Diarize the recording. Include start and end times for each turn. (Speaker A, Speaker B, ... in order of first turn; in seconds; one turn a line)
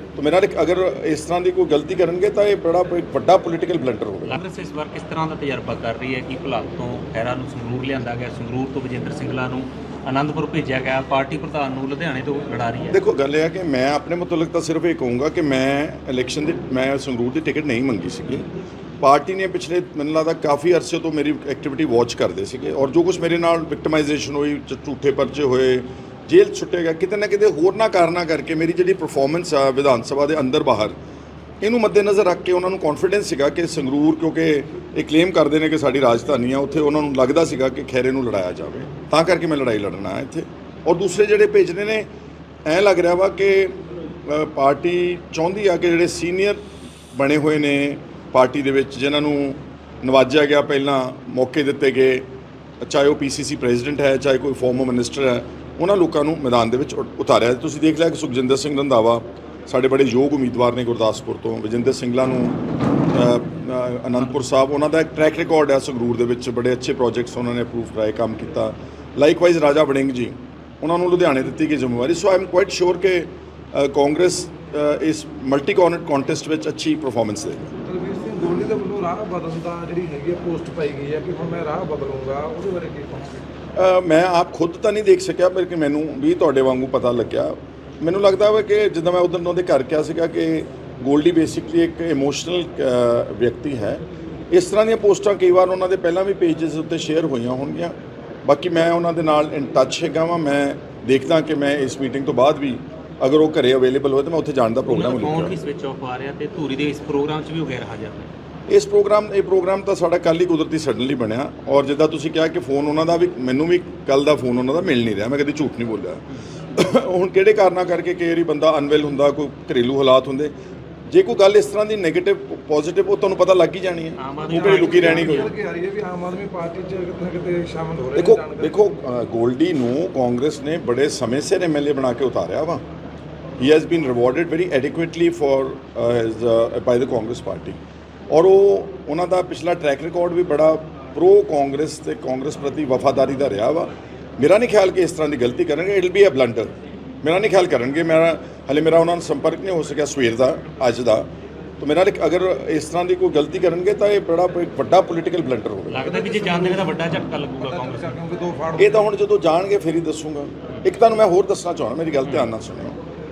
Speaker A: 0.2-4.4
Speaker B: 4.3-13.0
Speaker A: 12.9-18.5
Speaker A: 19.0-31.0
Speaker A: 31.6-42.1
Speaker A: 42.7-46.6
Speaker A: 47.1-52.3
Speaker A: 52.8-77.7
Speaker C: 77.9-83.4
Speaker A: 83.8-105.6
Speaker B: 104.9-108.3
Speaker A: 108.7-120.5
Speaker A: 121.1-125.5
Speaker B: 124.2-125.5
Speaker C: 124.5-128.8
Speaker A: 128.2-132.8
Speaker A: 133.6-146.7
Speaker A: 147.2-151.3
Speaker A: 151.8-156.1
Speaker B: 155.9-158.1
Speaker C: 156.0-159.1
Speaker A: 158.8-163.0